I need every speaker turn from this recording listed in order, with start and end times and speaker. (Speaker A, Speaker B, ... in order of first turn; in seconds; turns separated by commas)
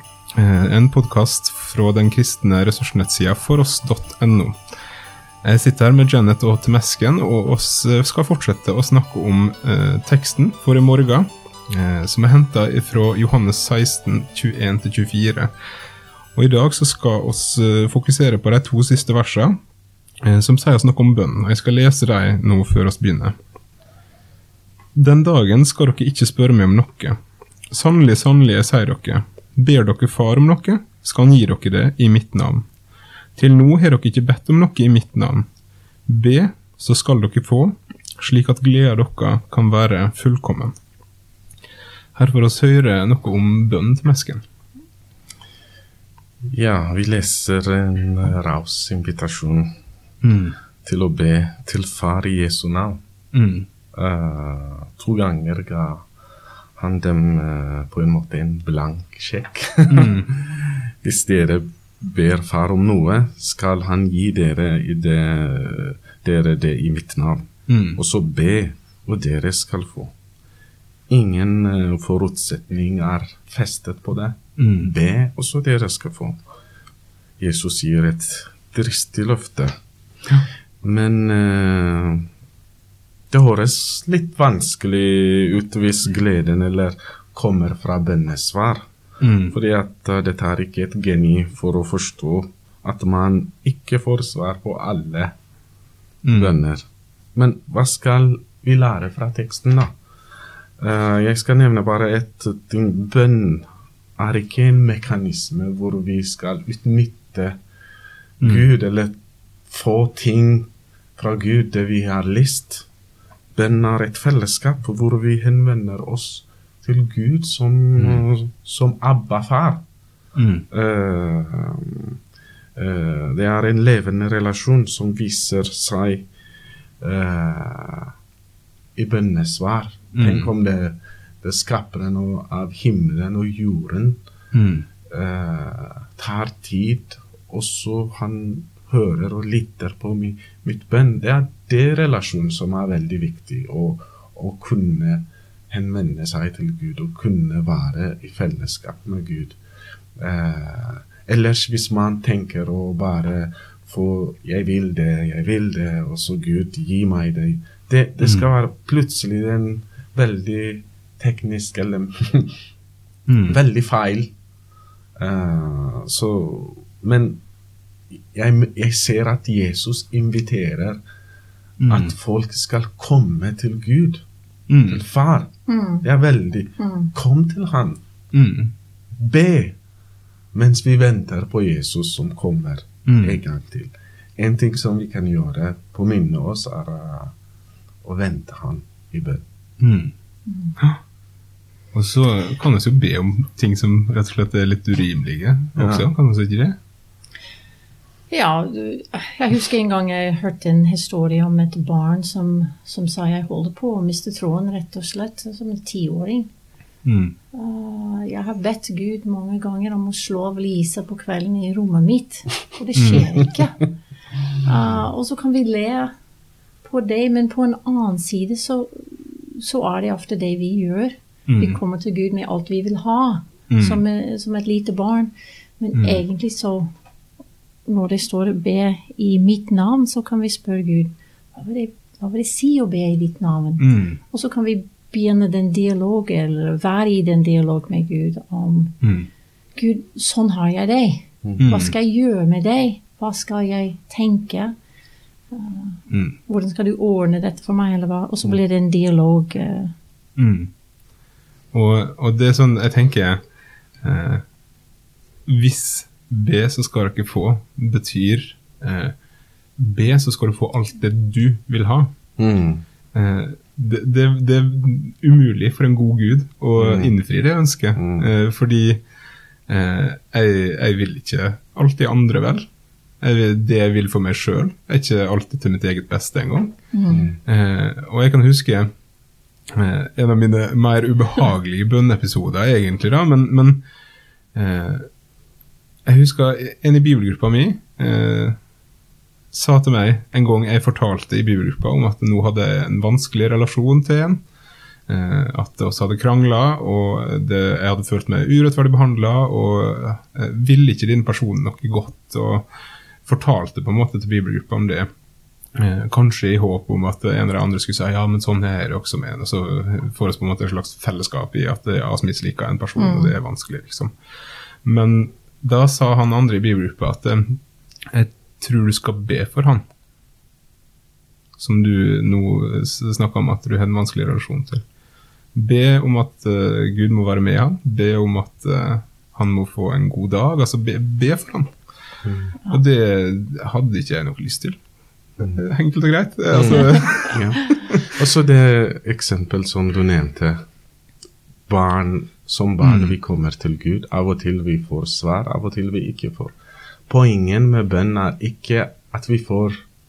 Speaker A: 0.4-4.6, Speaker A: 5.4-15.5, Speaker A: 16.4-19.6, Speaker A: 20.2-23.4, Speaker A: 24.9-27.2, Speaker A: 27.7-32.6, Speaker A: 33.4-35.5, Speaker A: 36.1-40.7, Speaker A: 42.2-44.4, Speaker B: 46.5-49.7, Speaker A: 50.2-50.6, Speaker B: 50.8-53.0, Speaker A: 53.3-53.7, Speaker B: 53.9-56.1, Speaker B: 56.8-70.1, Speaker A: 59.9-60.3, Speaker A: 67.7-68.0, Speaker B: 71.1-76.4, Speaker A: 74.6-74.9, Speaker B: 77.4-79.7, Speaker B: 80.8-82.3, Speaker B: 83.3-88.9, Speaker A: 89.2-89.5, Speaker B: 89.5-95.3, Speaker A: 96.2-96.6, Speaker B: 96.3-99.9, Speaker B: 100.8-103.7, Speaker B: 104.2-107.6, Speaker A: 108.4-108.7, Speaker B: 108.4-109.2, Speaker B: 109.7-112.9, Speaker B: 113.5-119.8, Speaker A: 118.0-118.2, Speaker A: 120.4-120.7, Speaker B: 120.7-122.2, Speaker B: 122.8-126.3, Speaker B: 127.0-128.1, Speaker B: 129.0-134.2, Speaker A: 130.2-130.5, Speaker A: 134.5-134.9, Speaker B: 135.1-149.6, Speaker B: 150.2-162.6, Speaker A: 158.2-158.5, Speaker A: 163.3-163.6, Speaker B: 163.5-164.3, Speaker B: 165.2-167.4, Speaker B: 168.2-171.0, Speaker A: 171.8-172.1, Speaker B: 171.9-174.2, Speaker A: 174.7-175.0, Speaker B: 174.9-178.0, Speaker C: 175.7-176.1, Speaker C: 176.8-177.1, Speaker A: 178.3-178.7, Speaker B: 179.2-179.8, Speaker B: 180.5-187.3, Speaker A: 183.1-183.4, Speaker B: 188.0-189.4, Speaker A: 189.8-190.1, Speaker C: 190.5-190.8, Speaker A: 191.9-196.8, Speaker B: 195.8-196.1, Speaker C: 198.3-206.5, Speaker A: 207.1-207.3, Speaker C: 207.5-213.9, Speaker A: 212.9-213.3, Speaker C: 214.6-216.1, Speaker C: 216.8-226.9, Speaker A: 221.5-221.8, Speaker A: 223.7-224.0, Speaker A: 225.9-226.2, Speaker C: 227.9-238.9, Speaker A: 233.8-234.2, Speaker A: 239.0-239.3, Speaker C: 239.8-244.7, Speaker A: 241.6-241.9, Speaker C: 245.5-249.9, Speaker A: 246.1-246.4, Speaker A: 250.4-250.7, Speaker A: 251.7-253.4, Speaker A: 254.0-254.4, Speaker A: 255.5-259.1, Speaker A: 259.8-262.1, Speaker B: 262.4-262.8, Speaker A: 263.1-269.0, Speaker B: 266.8-267.1, Speaker B: 268.0-268.3, Speaker A: 269.7-272.7, Speaker A: 273.2-276.7, Speaker C: 276.9-277.2, Speaker B: 277.1-277.4, Speaker A: 277.4-278.9, Speaker A: 279.7-283.8, Speaker A: 284.5-285.1, Speaker A: 286.1-288.6, Speaker A: 289.5-294.4, Speaker A: 295.1-302.7, Speaker A: 303.3-305.1, Speaker A: 305.8-314.1, Speaker C: 313.0-313.4, Speaker A: 314.8-317.6, Speaker A: 318.1-319.8, Speaker A: 321.6-324.8, Speaker A: 325.5-331.7, Speaker B: 332.2-332.6, Speaker A: 332.7-334.8, Speaker A: 335.4-338.1, Speaker B: 336.5-340.6, Speaker B: 341.7-346.6, Speaker A: 342.8-343.2, Speaker B: 347.1-349.8